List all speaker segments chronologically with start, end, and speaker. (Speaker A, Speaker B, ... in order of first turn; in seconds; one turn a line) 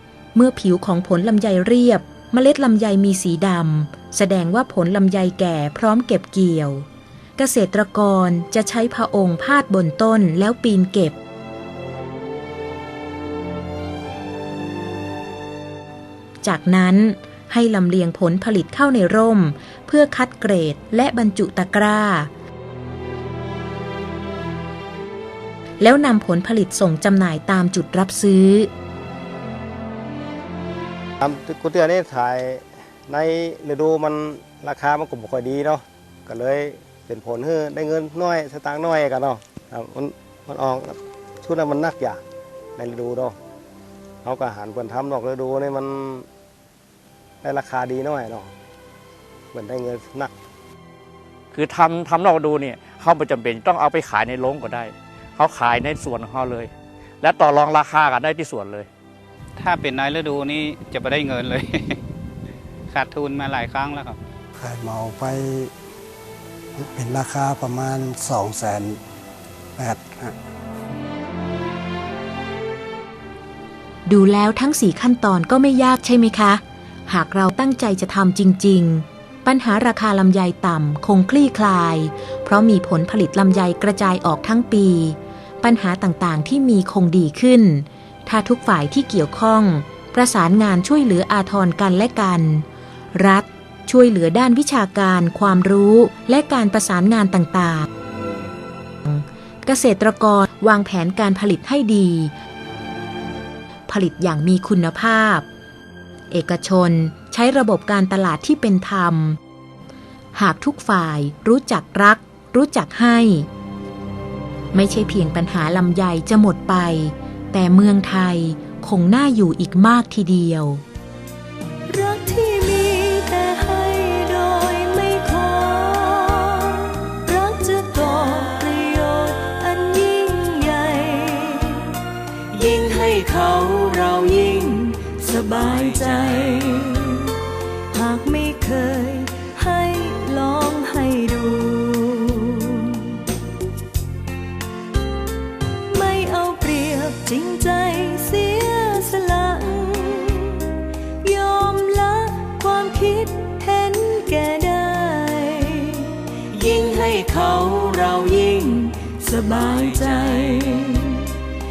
Speaker A: 0.3-6.9
Speaker A: 7.4-11.2
Speaker A: 16.4-22.3
Speaker A: 25.8-28.7
Speaker B: 31.2-42.2
Speaker B: 42.8-43.4
Speaker B: 44.2-46.3
Speaker B: 47.4-48.5
Speaker B: 49.5-50.3
Speaker C: 51.5-58.9
Speaker D: 59.6-62.0
Speaker D: 62.9-64.2
Speaker E: 64.5-65.7
Speaker E: 66.8-69.0
Speaker E: 69.8-70.4
Speaker A: 74.1-97.9
Speaker A: 99.0-102.3
Speaker A: 103.9-105.5
Speaker A: 106.3-109.4
Speaker A: 110.3-113.5
Speaker A: 114.7-120.8
Speaker F: 121.9-132.0
Speaker F: 132.5-137.4
Speaker F: 137.9-143.2
Speaker F: 145.9-161.3